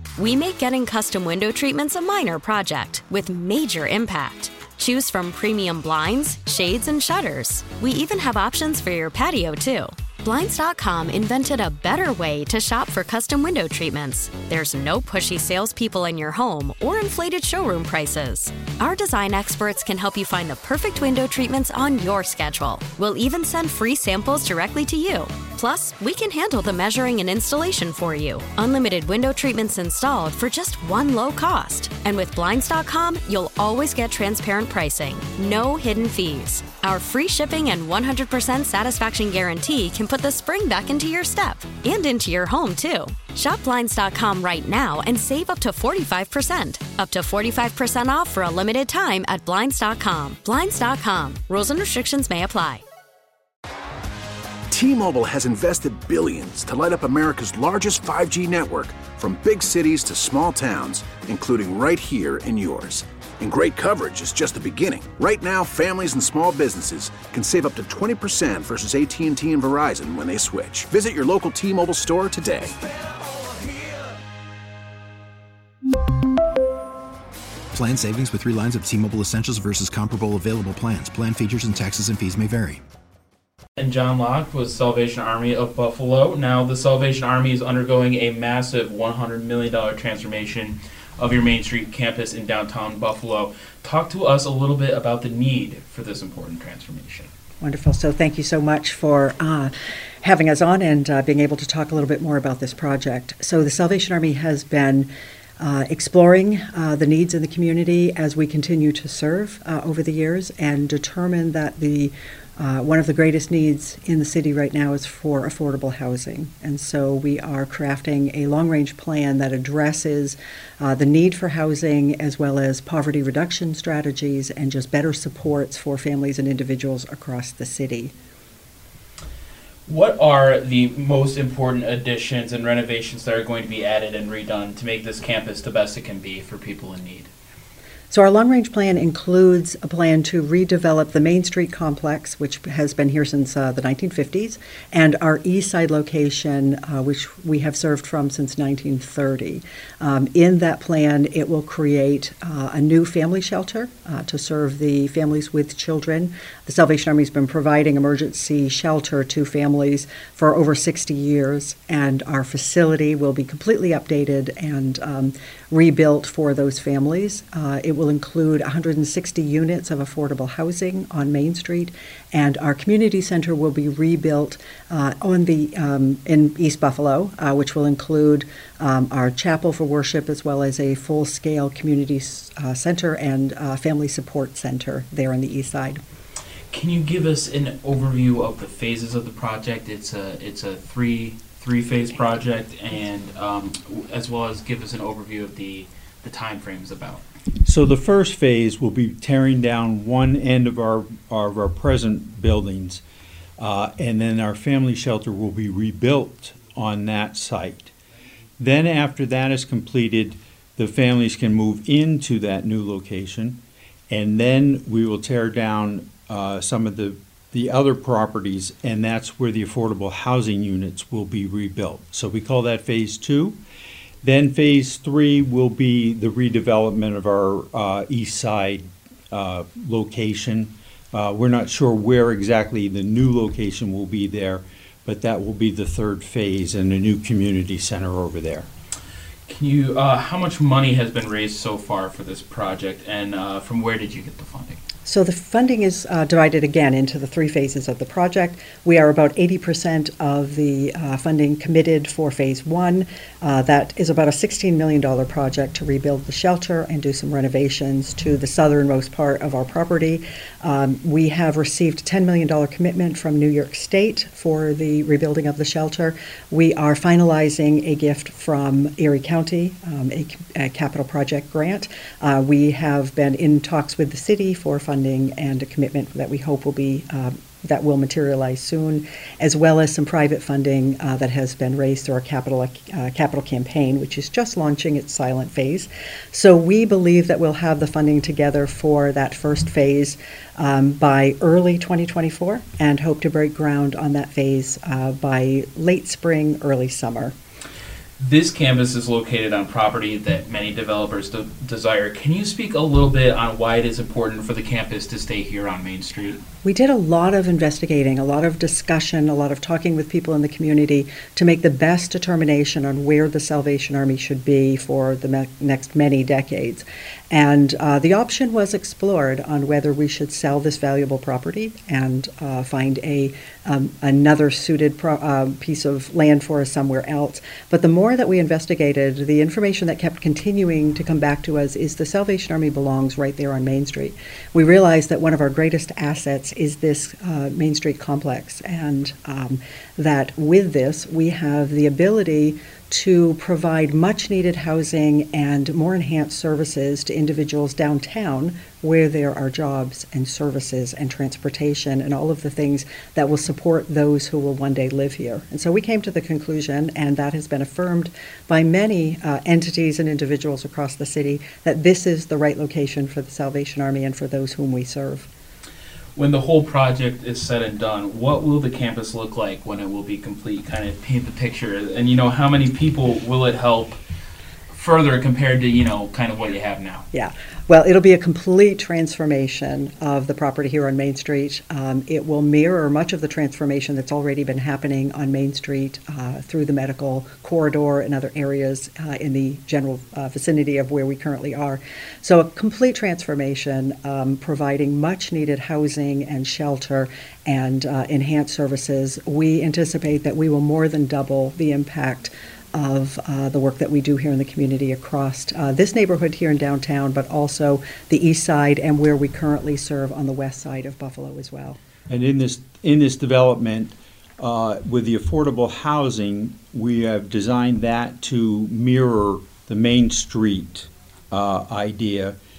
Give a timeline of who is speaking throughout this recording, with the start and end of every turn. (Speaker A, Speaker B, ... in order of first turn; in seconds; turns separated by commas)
Speaker A: 0.2-52.8, Speaker B: 54.7-72.8, Speaker C: 77.7-82.8, Speaker D: 83.8-97.3, Speaker E: 97.6-128.1, Speaker D: 129.9-137.3, Speaker E: 138.1-186.0, Speaker D: 186.7-197.2, Speaker F: 197.7-203.0, Speaker F: 203.6-207.9, Speaker F: 208.6-223.6, Speaker F: 224.2-238.7, Speaker D: 239.5-244.8, Speaker E: 245.1-297.3, Speaker D: 298.2-306.4, Speaker E: 306.6-365.3, Speaker D: 366.1-374.0, Speaker D: 374.7-377.0, Speaker E: 377.1-411.8, Speaker F: 412.1-422.4